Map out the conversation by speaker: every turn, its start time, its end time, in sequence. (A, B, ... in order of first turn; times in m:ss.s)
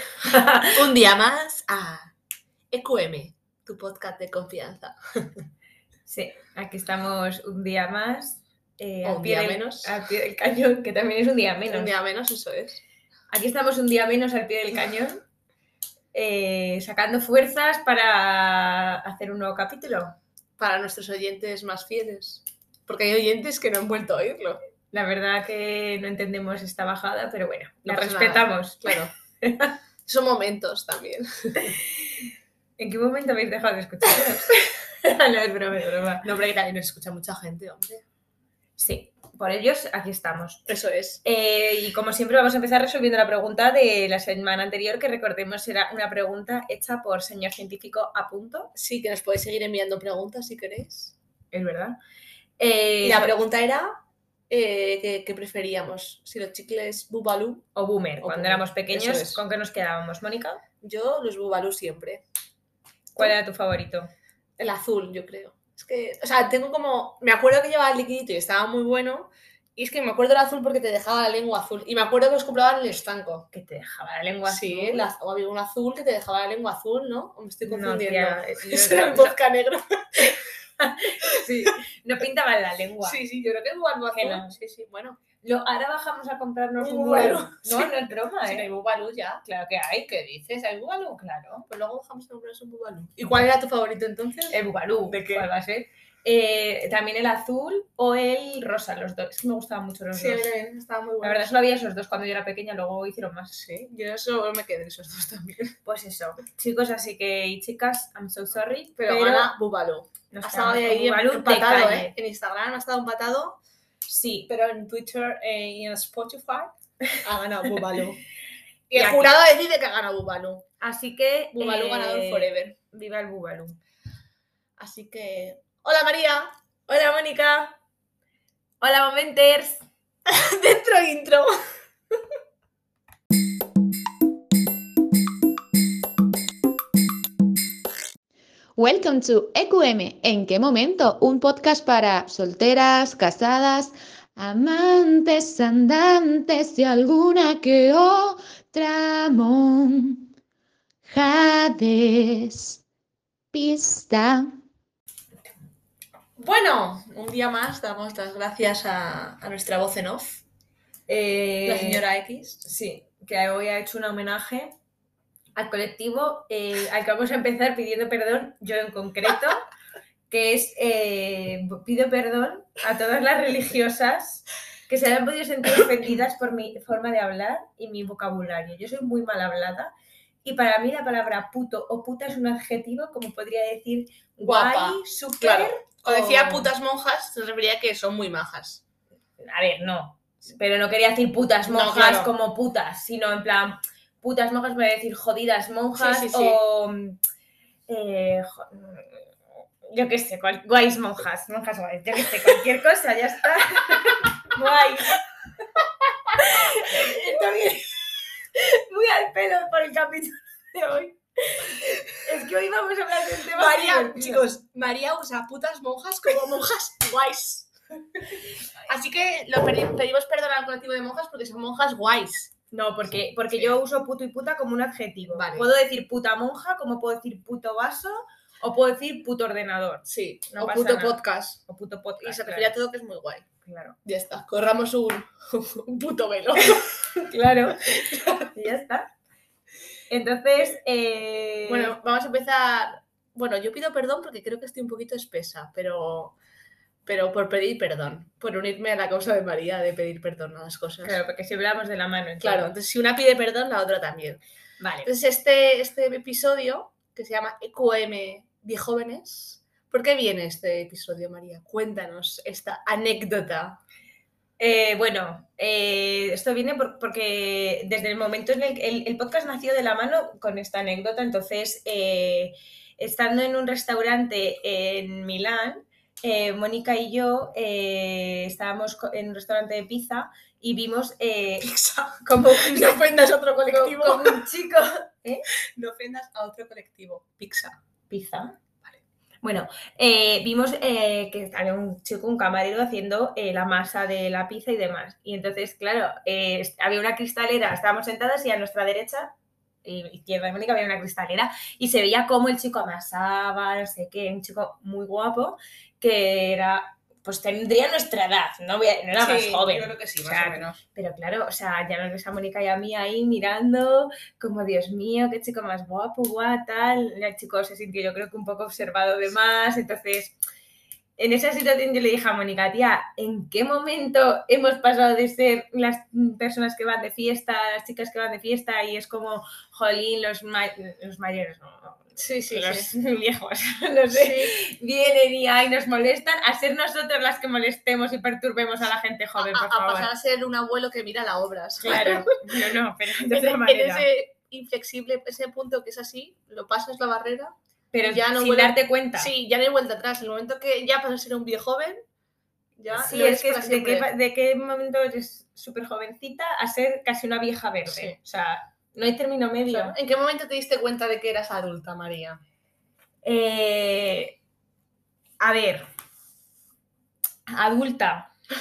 0:00.2-0:00.7 A
0:00.7-0:02.1 B
0:02.7-0:05.4 B
0:06.1-0:11.9 A
0:09.0-0:09.9 B
0:11.7-0:12.8 B
0:13.3-0:15.2 A
0:16.1-0:20.1 A
0:20.6-0:24.6 B
0:24.9-0:29.7 A
0:27.8-0:29.1 B
0:30.0-0:31.8 B
0:32.8-0:36.3 A
0:36.2-0:38.0 B
0:38.8-0:40.7 A
0:40.7-0:41.2 B
0:41.2-0:48.7 A
0:48.8-0:51.2 B
0:51.5-0:52.0 A
0:52.6-0:53.3 A
0:53.0-0:54.0 B
0:54.5-0:57.6 B
0:57.7-1:00.6 A
0:58.2-0:59.4 B
1:00.8-1:02.2 B
1:03.1-1:04.1 A
1:04.6-1:13.5 B
1:13.5-1:15.1 A
1:14.5-1:20.4 B
1:17.6-1:19.3 A
1:20.8-1:23.2 A
1:21.2-1:21.7 B
1:23.0-1:25.2 B
1:24.1-1:24.5 A
1:25.4-1:28.7 A
1:26.8-1:27.9 B
1:28.5-1:29.4 B
1:29.4-1:30.1 A
1:30.1-1:35.5 B
1:31.1-1:31.7 A
1:34.5-1:40.4 A
1:40.1-1:41.5 B
1:41.2-1:43.6 A
1:43.5-1:45.7 B
1:45.8-1:49.5 A
1:49.0-1:53.6 B
1:50.3-1:52.1 A
1:54.0-1:54.5 A
1:54.5-1:58.2 B
1:58.9-2:00.6 B
1:58.9-1:59.3 A
2:00.8-2:03.8 A
2:01.5-2:02.8 B
2:04.8-2:07.0 B
2:06.9-2:07.7 A
2:08.8-2:09.8 A
2:10.2-2:11.6 B
2:18.8-2:30.2 C
2:31.0-2:32.8 C
2:33.5-2:34.5 C
2:36.4-2:40.4 B
2:41.1-2:42.0 A
2:41.6-2:42.6 B
2:42.6-2:44.7 A
2:45.5-2:49.6 A
2:50.3-2:59.9 A
3:00.4-3:06.7 A
3:04.4-3:08.8 B
3:09.4-3:17.2 A
3:11.7-3:12.3 B
3:15.9-3:16.6 B
3:17.9-3:19.3 A
3:19.9-3:25.2 A
3:25.8-3:34.5 A
3:26.6-3:27.3 B
3:33.4-3:37.7 B
3:38.8-3:42.5 B
3:42.7-3:52.7 A
3:43.5-3:43.8 B
3:45.3-3:45.7 B
3:50.0-3:51.6 B
3:52.2-3:53.4 B
3:53.6-3:54.0 A
3:54.0-3:57.0 B
3:57.1-3:57.8 A
3:57.7-3:58.5 B
3:58.4-3:59.1 A
4:00.1-4:01.9 A
4:01.6-4:06.4 B
4:07.0-4:11.2 B
4:11.0-4:12.7 A
4:12.4-4:14.4 B
4:14.8-4:15.1 A
4:15.0-4:23.8 B
4:24.6-4:43.0 A
4:41.6-4:44.5 B
4:43.6-4:45.4 A
4:45.8-4:47.8 B
4:48.1-4:48.6 A
4:49.4-4:59.3 A
4:59.8-5:20.4 A
5:09.2-5:10.8 B
5:21.2-5:40.1 A
5:32.2-5:32.9 B
5:34.1-5:34.5 B
5:39.4-5:42.8 B
5:41.8-5:44.1 A
5:43.3-5:52.0 B
5:47.9-5:49.3 A
5:52.8-5:54.1 B
5:52.9-6:00.0 A
5:57.9-5:58.2 B
5:59.7-6:02.4 B
6:03.2-6:04.4 A
6:05.4-6:05.8 A
6:07.5-6:08.3 A